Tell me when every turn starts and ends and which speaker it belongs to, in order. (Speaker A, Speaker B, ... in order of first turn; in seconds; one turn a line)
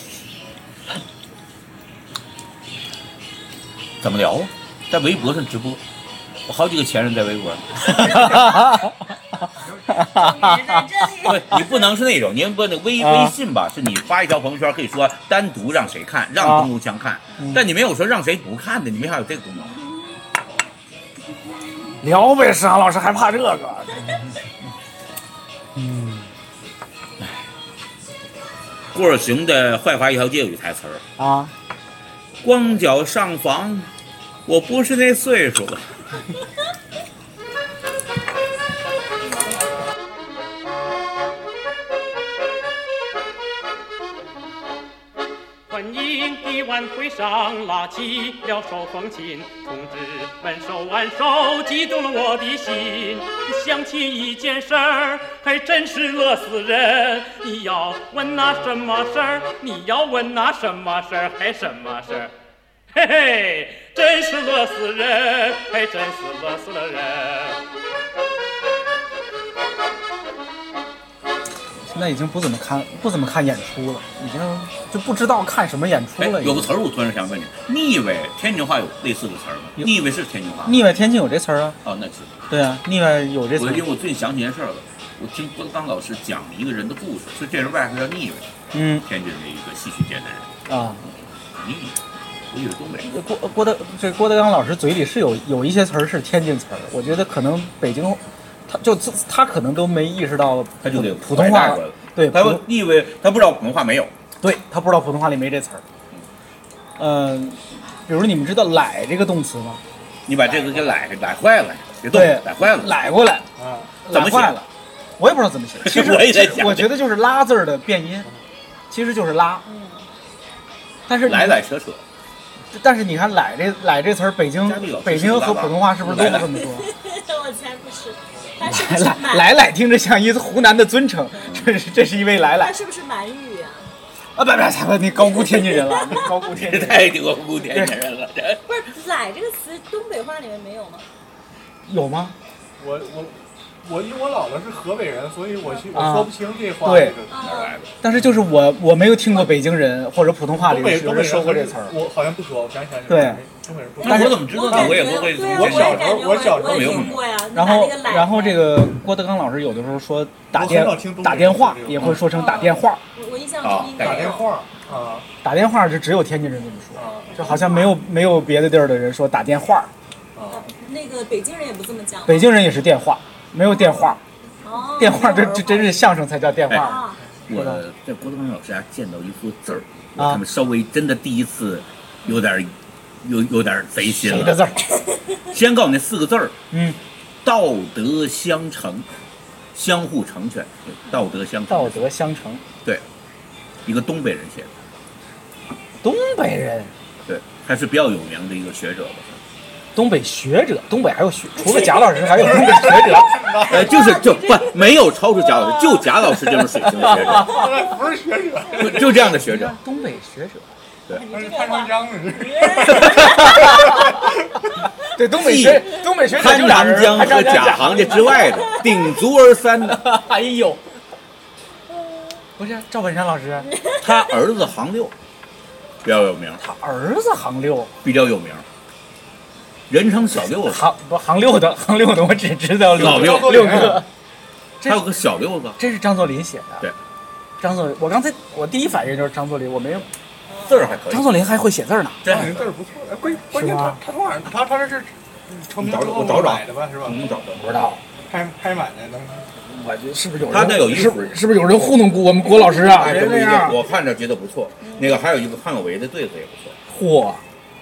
Speaker A: 4.0-5.8
Speaker A: 6.5-8.4
Speaker B: 7.9-8.9
Speaker B: 9.9-10.8
Speaker C: 10.0-11.8
Speaker A: 11.2-19.7
Speaker B: 13.0-13.3
Speaker B: 16.4-16.7
Speaker B: 22.0-24.3
Speaker B: 25.8-26.3
Speaker A: 28.9-31.0
Speaker B: 31.2-31.5
Speaker A: 32.4-33.9
Speaker A: 34.5-35.9
Speaker D: 45.7-62.3
Speaker D: 63.0-67.5
Speaker B: 71.9-76.7
Speaker A: 76.2-80.8
Speaker B: 80.6-81.8
Speaker A: 81.8-82.4
Speaker B: 82.5-83.9
Speaker A: 83.6-88.5
Speaker B: 88.7-89.0
Speaker A: 89.0-90.5
Speaker B: 90.7-91.0
Speaker A: 91.5-92.0
Speaker A: 92.5-93.1
Speaker B: 93.0-102.6
Speaker A: 100.8-104.1
Speaker B: 104.4-105.8
Speaker B: 107.0-109.8
Speaker A: 110.3-112.9
Speaker B: 112.1-113.5
Speaker E: 113.6-113.9
Speaker B: 114.0-114.7
Speaker A: 114.1-114.6
Speaker B: 115.2-118.3
Speaker A: 115.8-117.0
Speaker B: 118.9-119.6
Speaker C: 119.7-120.1
Speaker B: 121.1-121.6
Speaker A: 121.2-122.0
Speaker B: 122.7-126.9
Speaker A: 124.6-126.6
Speaker C: 126.8-129.6
Speaker B: 128.7-132.7
Speaker C: 132.4-133.9
Speaker B: 134.4-137.9
Speaker C: 135.4-136.1
Speaker A: 136.5-138.6
Speaker C: 138.7-141.1
Speaker B: 141.9-142.3
Speaker E: 142.8-147.4
Speaker B: 145.9-147.2
Speaker C: 147.3-147.8
Speaker A: 147.4-147.9
Speaker B: 148.0-151.9
Speaker E: 150.6-157.1
Speaker B: 153.1-153.4
Speaker A: 154.0-157.2
Speaker B: 154.1-154.4
Speaker C: 154.1-158.8
Speaker B: 157.5-163.0
Speaker E: 160.5-162.3
Speaker C: 162.3-164.5
Speaker A: 163.6-164.4
Speaker E: 164.0-165.3
Speaker B: 165.4-169.9
Speaker E: 167.0-167.4
Speaker C: 167.3-168.0
Speaker E: 170.4-170.7
Speaker C: 170.5-172.5
Speaker B: 172.2-174.2
Speaker C: 174.6-176.1
Speaker B: 175.0-177.8
Speaker C: 176.7-177.2
Speaker A: 177.5-184.6
Speaker B: 180.2-180.4
Speaker B: 184.1-184.9
Speaker A: 185.5-186.6
Speaker B: 186.7-187.0
Speaker A: 187.4-189.1
Speaker A: 189.7-192.1
Speaker B: 191.7-192.6
Speaker A: 193.8-194.7
Speaker B: 196.0-196.9
Speaker A: 197.2-199.4
Speaker B: 199.9-203.5
Speaker E: 202.3-203.9
Speaker A: 203.6-207.6
Speaker C: 203.9-206.2
Speaker E: 207.3-209.2
Speaker A: 208.8-209.7
Speaker B: 209.4-210.7
Speaker C: 211.1-214.1
Speaker E: 211.3-214.3
Speaker B: 213.4-214.0
Speaker B: 215.1-218.4
Speaker A: 215.3-220.0
Speaker C: 218.2-219.1
Speaker B: 219.8-220.8
Speaker C: 221.9-222.2
Speaker B: 222.6-223.7
Speaker C: 223.7-224.3
Speaker A: 224.0-225.1
Speaker A: 226.0-226.6
Speaker B: 226.6-227.9
Speaker A: 228.0-228.6
Speaker A: 229.9-230.8
Speaker B: 230.7-234.1
Speaker A: 232.9-233.9
Speaker E: 232.9-234.0
Speaker A: 234.8-235.8
Speaker B: 235.8-236.9
Speaker B: 237.6-240.1
Speaker C: 240.5-240.9
Speaker A: 240.7-241.4
Speaker B: 241.1-242.2
Speaker A: 242.2-242.7
Speaker E: 242.2-247.2
Speaker B: 243.5-244.0
Speaker A: 245.8-247.8
Speaker B: 247.6-248.0
Speaker E: 248.3-249.5
Speaker B: 249.7-253.8
Speaker A: 250.5-251.4
Speaker A: 252.5-256.8
Speaker C: 254.8-255.2
Speaker B: 256.9-257.4